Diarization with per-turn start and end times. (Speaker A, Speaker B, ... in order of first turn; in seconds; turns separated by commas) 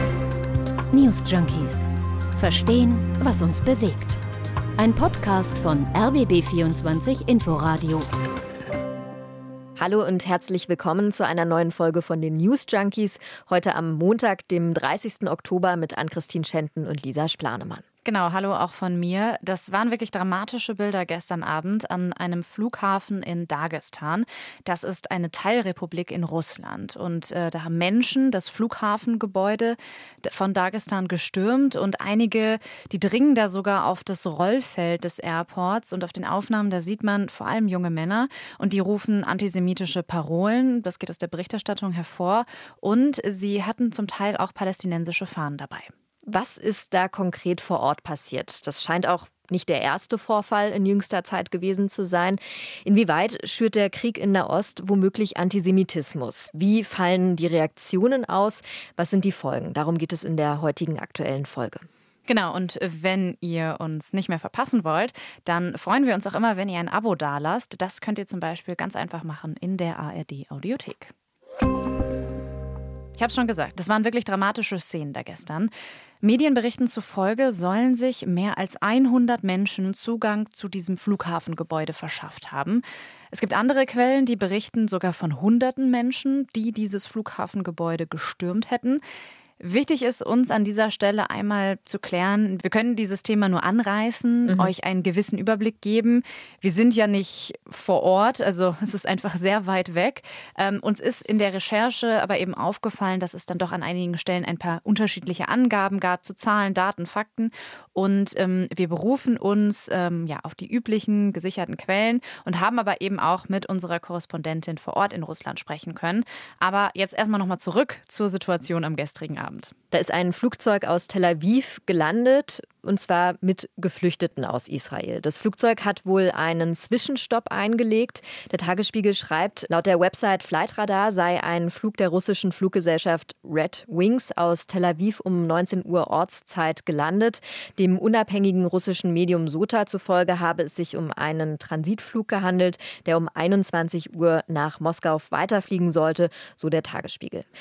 Speaker A: 0.9-4.2, Speaker A: 4.8-8.1, Speaker B: 9.8-17.8, Speaker C: 18.1-45.9, Speaker B: 46.3-61.9, Speaker C: 62.3-71.1, Speaker C: 73.2-75.7, Speaker C: 76.2-89.0, Speaker C: 89.6-119.7, Speaker B: 119.9-147.4